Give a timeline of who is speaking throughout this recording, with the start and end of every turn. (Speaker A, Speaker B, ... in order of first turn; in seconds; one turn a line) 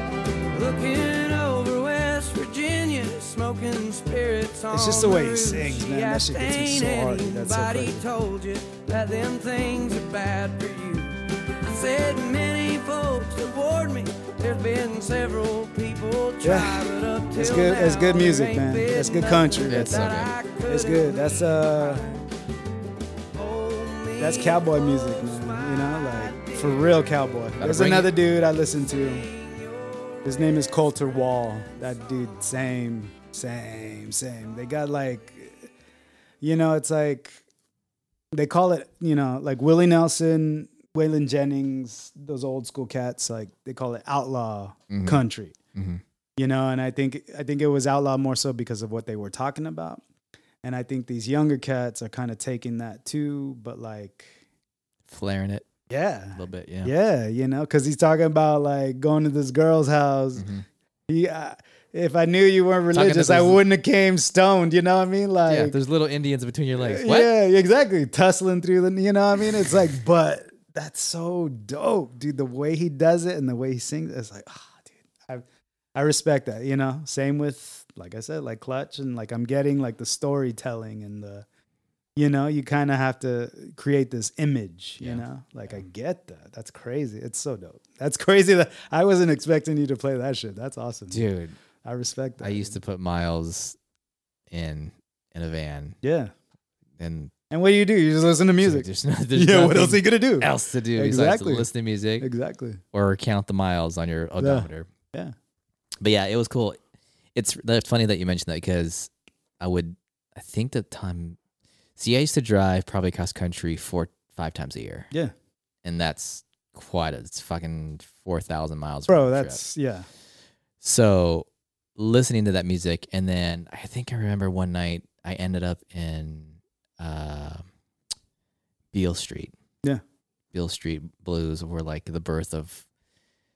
Speaker A: 0.5-22.2
Speaker B: 4.7-8.0
Speaker B: 16.4-22.1
Speaker C: 19.7-20.4
Speaker A: 23.3-27.0
Speaker B: 24.2-29.3
Speaker C: 27.6-28.1
Speaker A: 28.9-30.4
Speaker B: 30.2-35.7
Speaker B: 36.4-37.4
Speaker B: 38.3-45.5
Speaker C: 44.9-45.2
Speaker C: 45.7-46.0
Speaker B: 46.4-50.0
Speaker B: 50.6-54.4
Speaker C: 55.1-55.7
Speaker B: 55.9-60.5
Speaker C: 56.4-56.9
Speaker C: 60.4-60.6
Speaker B: 61.1-65.8
Speaker C: 62.9-63.6
Speaker C: 65.5-67.3
Speaker B: 66.8-81.4
Speaker B: 82.2-91.2
Speaker C: 91.1-91.6
Speaker B: 91.8-92.8
Speaker C: 92.4-93.8
Speaker C: 94.5-96.0
Speaker B: 96.0-96.3
Speaker C: 97.0-97.3
Speaker B: 97.5-101.7
Speaker C: 98.6-102.3
Speaker B: 102.2-102.8
Speaker C: 102.9-104.9
Speaker B: 104.4-105.3
Speaker C: 106.0-106.8
Speaker C: 107.3-111.4
Speaker C: 112.0-115.1
Speaker C: 115.8-119.6
Speaker B: 119.1-120.1
Speaker C: 120.8-127.7
Speaker C: 128.9-129.5
Speaker C: 130.5-132.9